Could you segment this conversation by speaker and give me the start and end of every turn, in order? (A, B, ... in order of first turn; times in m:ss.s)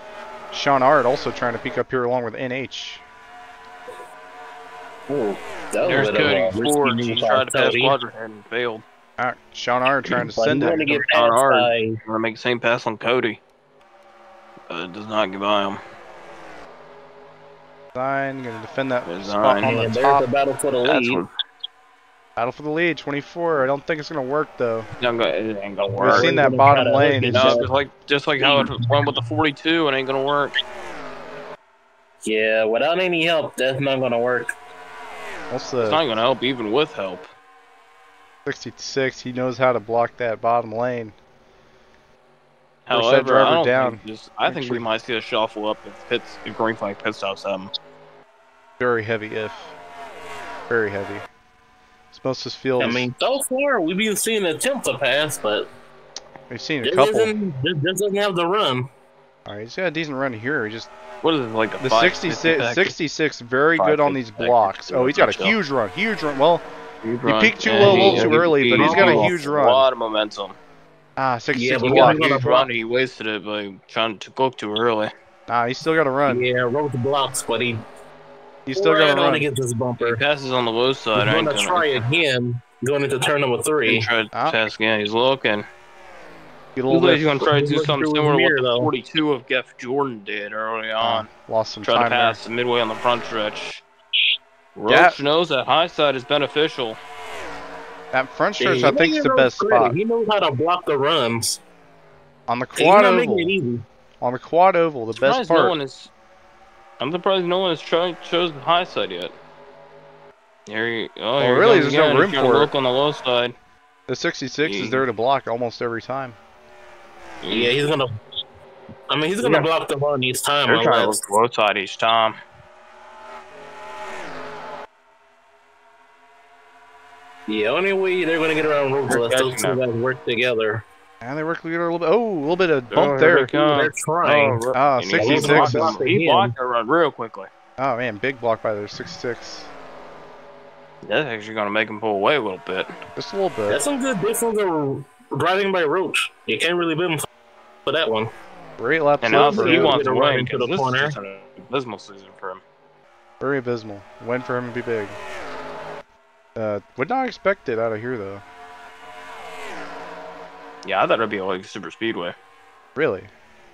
0:00.5-0:03.0 A
0:05.1-0:08.0 B
0:05.8-0:08.8 C
0:09.2-0:11.0 A
0:10.3-0:12.0 B
0:10.8-0:13.4 C
0:14.7-0:15.8 C
0:17.9-0:20.2 A
0:19.0-0:19.7 C
0:19.6-0:21.2 B
0:20.8-0:21.3 C
0:22.4-0:24.9 A
0:25.0-0:26.4 C
0:25.8-0:27.7 B
0:26.0-0:27.6 A
0:27.2-0:30.5 C
0:28.4-0:28.8 B
0:32.2-0:34.5 B
0:35.5-0:36.0 A
0:35.8-0:37.3 C
0:38.4-0:41.1 A
0:42.8-0:47.7 C
0:42.9-0:44.8 A
0:48.8-0:49.8 A
0:50.7-0:51.3 A
0:52.1-0:53.1 A
0:52.8-0:55.7 B
0:56.5-0:57.3 A
0:56.8-0:58.9 B
0:59.4-1:00.9 A
1:01.2-1:02.9 C
1:01.8-1:06.6 A
1:03.8-1:05.6 C
1:07.0-1:10.6 C
1:07.2-1:09.9 A
1:07.8-1:09.4 B
1:11.2-1:12.7 A
1:11.5-1:12.6 B
1:11.8-1:15.1 C
1:15.5-1:16.4 A
1:16.3-1:17.8 B
1:18.7-1:19.4 A
1:18.7-1:20.2 B
1:20.0-1:22.0 C
1:21.1-1:24.1 B
1:23.8-1:25.6 C
1:24.3-1:24.6 A
1:26.8-1:27.5 A
1:26.9-1:31.3 C
1:27.4-1:28.9 B
1:31.0-1:32.4 A
1:31.8-1:33.8 C
1:34.8-1:37.0 C
1:34.9-1:35.2 A
1:38.1-1:40.0 A
1:38.6-1:41.6 B
1:42.5-1:43.5 A
1:42.8-1:43.8 B
1:44.2-1:45.8 A
1:45.2-1:46.1 C
1:47.0-1:49.3 C
1:50.7-1:53.5 C
1:51.4-1:52.7 A
1:54.1-1:56.4 A
1:54.6-1:55.0 C
1:57.4-1:57.8 C
1:57.5-1:58.1 B
1:59.1-2:01.2 B
1:59.4-1:59.7 C
2:00.7-2:02.4 C
2:07.5-2:10.8 B
2:09.1-2:09.8 C
2:11.2-2:13.5 A
2:12.9-2:17.5 C
2:13.2-2:14.6 B
2:14.7-2:16.0 A
2:15.2-2:16.5 B
2:17.8-2:19.7 A
2:21.0-2:22.9 C
2:23.2-2:23.8 A
2:23.7-2:27.3 B
2:27.8-2:28.3 B
2:28.8-2:30.0 A
2:29.2-2:32.6 C
2:29.3-2:31.1 B
2:33.4-2:35.2 A
2:36.5-2:38.4 A
2:40.8-2:42.3 C
2:43.0-2:43.3 A